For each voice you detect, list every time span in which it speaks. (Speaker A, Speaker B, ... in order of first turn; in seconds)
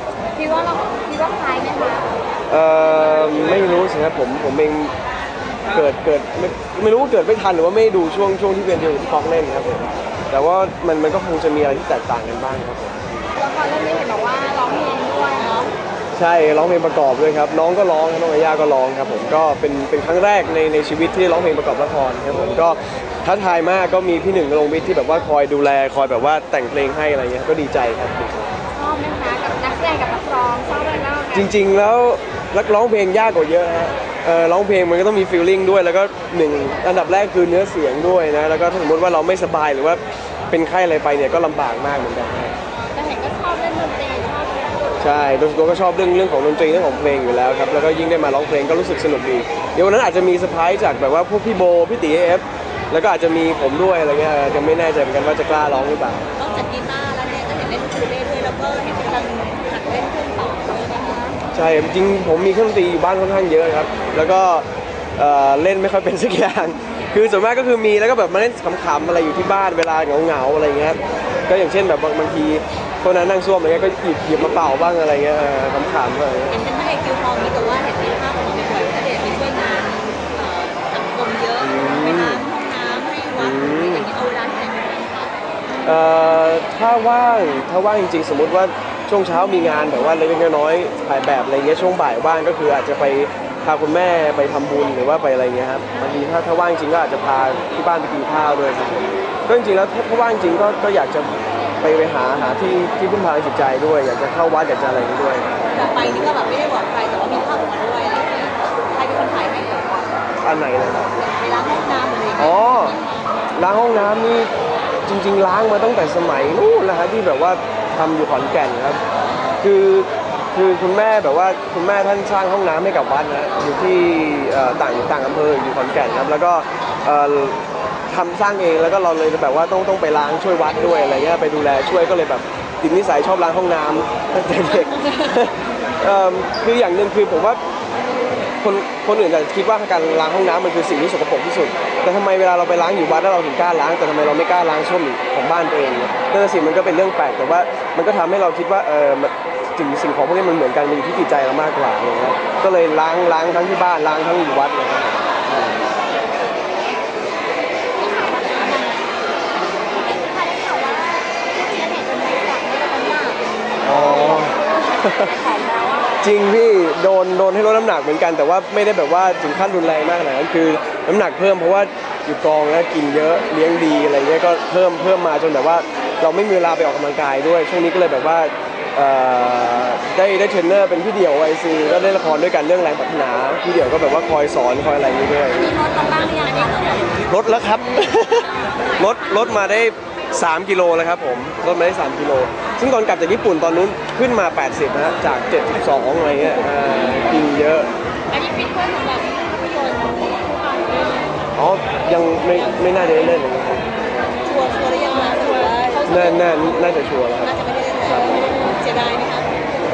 Speaker A: 0.3-2.1, 13.4-15.7, 28.7-31.5, 42.9-45.0, 158.0-159.2, 160.0-166.3, 185.6-187.1, 198.3-201.4, 205.4-206.2
Speaker B: 2.5-4.9, 5.7-13.0, 16.1-28.5, 31.3-42.5, 45.0-56.3, 61.5-76.6, 81.6-82.4, 83.4-84.1, 85.8-106.2, 110.4-111.1, 112.4-113.0, 113.5-114.5, 115.1-119.0, 119.6-137.6, 138.6-155.8, 163.8-165.3, 166.2-185.7, 187.3-197.9, 201.6-203.8, 206.1-207.5
Speaker C: 56.4-61.4, 76.5-85.3, 105.7-110.1, 110.9-113.0, 119.2-119.7, 185.8-187.2, 188.2-189.6, 204.4-206.7, 207.4-209.5